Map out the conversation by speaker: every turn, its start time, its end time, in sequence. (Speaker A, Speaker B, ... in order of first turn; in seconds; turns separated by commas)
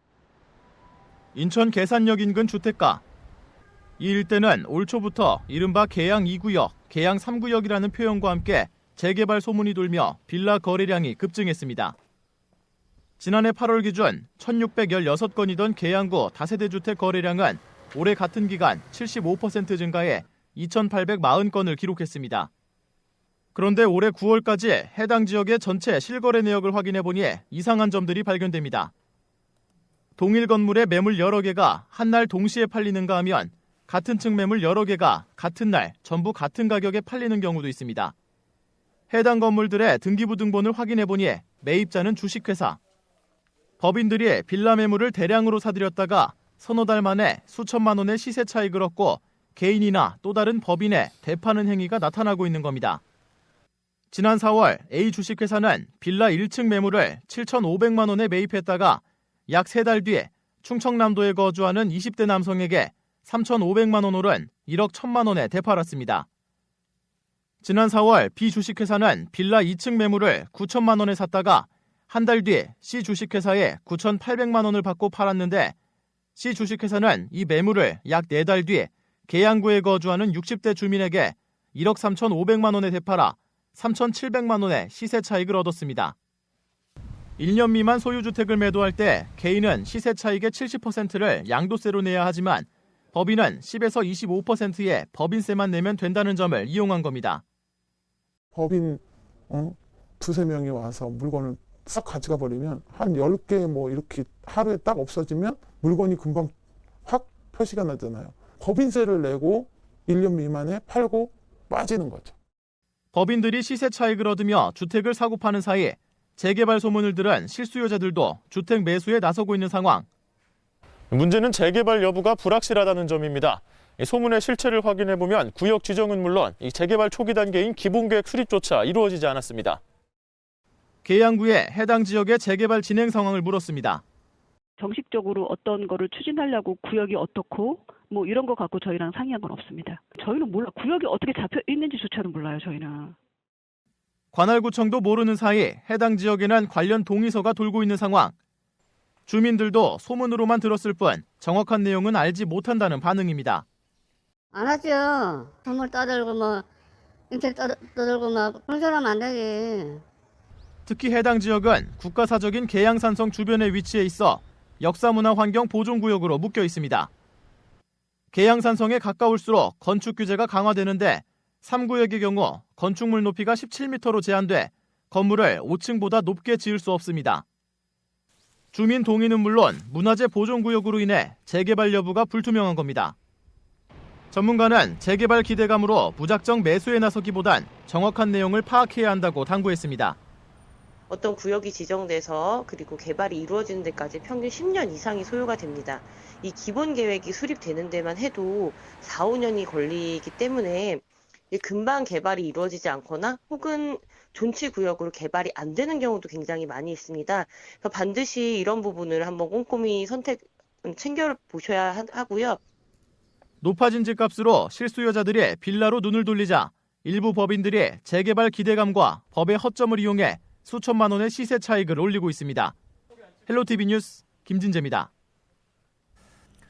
Speaker A: 1.3-3.0, Speaker A: 4.0-11.9, Speaker A: 13.2-22.5, Speaker A: 23.6-28.9, Speaker A: 30.2-38.1, Speaker A: 39.1-42.8, Speaker A: 43.8-53.0, Speaker A: 54.1-66.2, Speaker A: 67.6-75.8, Speaker A: 76.4-86.1, Speaker A: 87.4-97.4, Speaker B: 98.5-106.5, Speaker B: 107.0-112.3, Speaker A: 113.1-120.0, Speaker C: 121.1-129.8, Speaker A: 131.0-134.0, Speaker D: 134.8-143.2, Speaker A: 144.3-148.3, Speaker A: 149.3-153.6, Speaker E: 154.5-156.7, Speaker E: 157.3-160.0, Speaker A: 160.9-167.1, Speaker A: 168.3-177.4, Speaker A: 178.7-183.2, Speaker A: 184.3-190.2, Speaker F: 191.1-212.6, Speaker A: 213.6-222.8, Speaker A: 223.5-225.1